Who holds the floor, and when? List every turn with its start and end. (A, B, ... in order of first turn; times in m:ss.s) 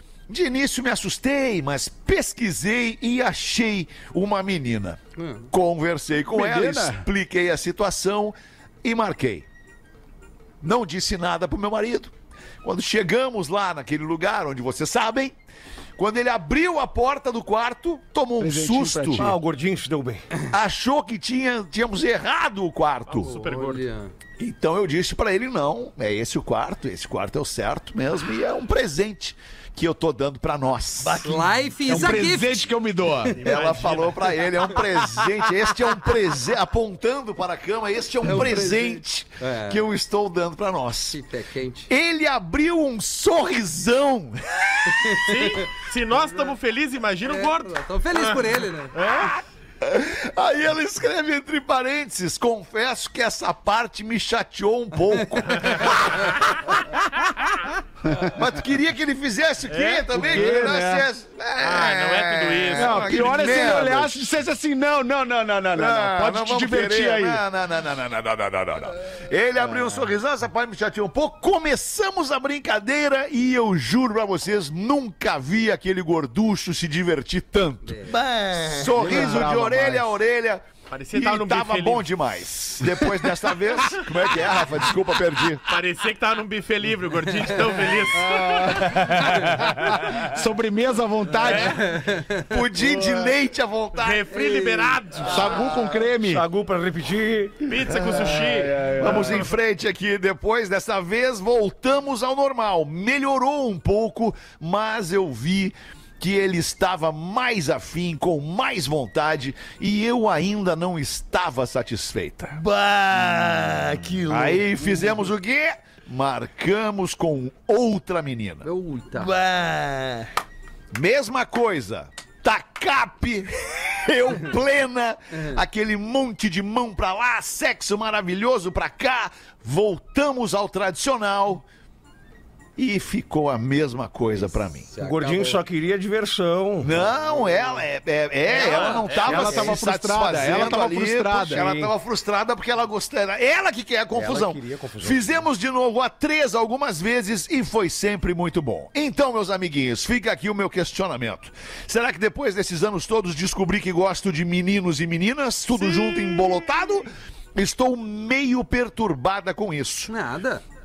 0:00.3-0:05.0 A
0:05.2-0:05.5 B
0:05.5-0:09.5 A
0:06.3-0:07.1 C
0:10.6-0:15.4 A
0:16.0-0:19.3 A
0:18.4-0:19.4 C
0:19.1-0:20.2 D
0:20.5-0:23.4 A
0:23.1-0:23.8 E
0:23.3-0:24.1 B
0:24.4-0:31.4 A
0:31.0-0:31.5 F
0:31.2-0:32.7 B
0:31.8-0:33.4 C
0:33.4-0:34.5 E
0:33.4-0:41.2 A
0:38.2-0:39.9 B
0:41.1-0:41.9 B
0:41.9-0:45.3 A
0:44.9-0:45.7 B
0:45.3-0:49.4 E
0:47.3-0:49.0 B
0:49.8-0:56.8 A
0:55.2-0:55.9 B
0:55.6-0:56.0 E
0:58.2-1:04.4 A
0:59.7-1:00.6 E
1:00.1-1:01.1 C
1:01.6-1:03.7 E
1:02.8-1:07.4 C
1:05.7-1:18.0 A
1:09.6-1:10.0 C
1:17.8-1:18.1 B
1:18.0-1:19.4 F
1:18.6-1:25.6 A
1:19.0-1:20.0 C
1:20.9-1:22.1 E
1:25.7-1:30.3 E
1:28.2-1:31.9 C
1:31.4-1:31.8 E
1:31.4-1:32.5 B
1:32.5-1:34.3 A
1:34.0-1:35.8 E
1:34.3-1:35.0 B
1:35.2-1:36.4 C
1:35.4-1:37.7 D
1:37.7-1:39.4 E
1:37.9-1:38.4 A
1:37.9-1:39.4 C
1:39.0-1:52.6 A
1:52.5-1:55.1 F
1:54.3-1:58.7 A
1:58.6-1:59.3 B
1:59.1-2:00.3 F
2:00.9-2:11.6 A
2:05.3-2:05.6 B
2:12.8-2:14.9 A
2:14.8-2:15.6 B
2:15.0-2:17.1 D
2:16.8-2:40.1 A
2:17.3-2:17.7 B
2:18.5-2:19.5 E
2:18.6-2:19.1 B
2:19.2-2:21.9 C
2:24.1-2:25.4 D
2:40.1-2:40.6 B